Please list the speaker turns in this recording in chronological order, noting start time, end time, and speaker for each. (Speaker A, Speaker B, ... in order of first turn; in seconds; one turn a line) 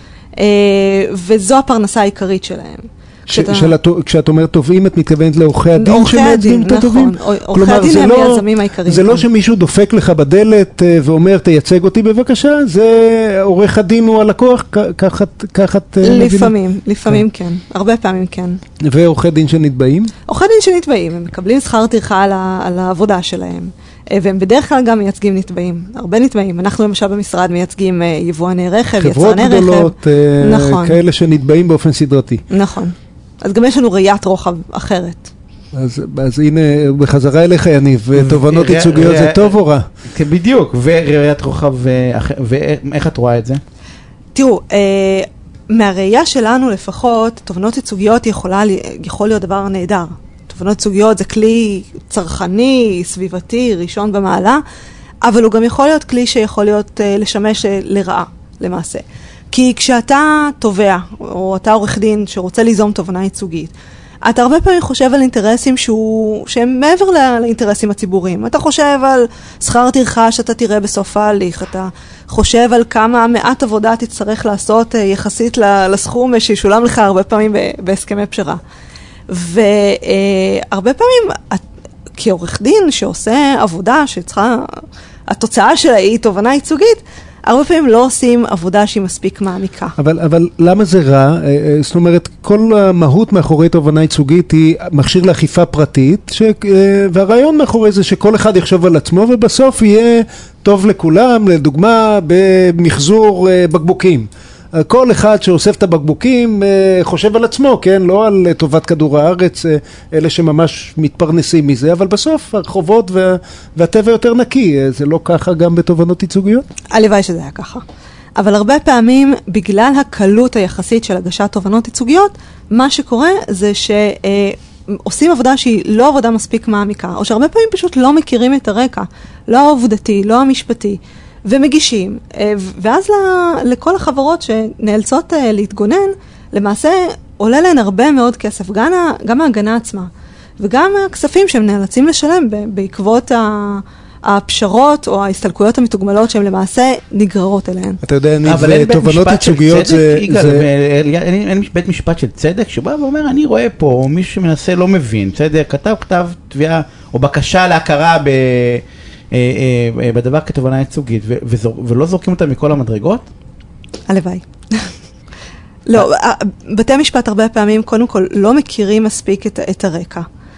Speaker A: 0.4-3.7
Speaker B: 3.3-16.5
Speaker A: 5.8-9.2
Speaker A: 16.0-18.6
Speaker B: 18.8-20.1
Speaker A: 20.3-31.0
Speaker B: 29.0-32.4
Speaker A: 32.5-35.3
Speaker B: 35.7-39.9
Speaker C: 38.1-39.6
Speaker C: 40.1-43.6
Speaker A: 44.3-54.6
Speaker A: 55.2-63.7
Speaker A: 64.2-78.6
Speaker A: 79.3-81.6
Speaker A: 82.2-89.9
Speaker B: 90.0-116.6
Speaker A: 116.9-117.8
Speaker A: 118.4-148.0
Speaker B: 148.0-150.7
Speaker C: 148.4-163.2
Speaker A: 164.1-164.9
Speaker A: 165.8-170.3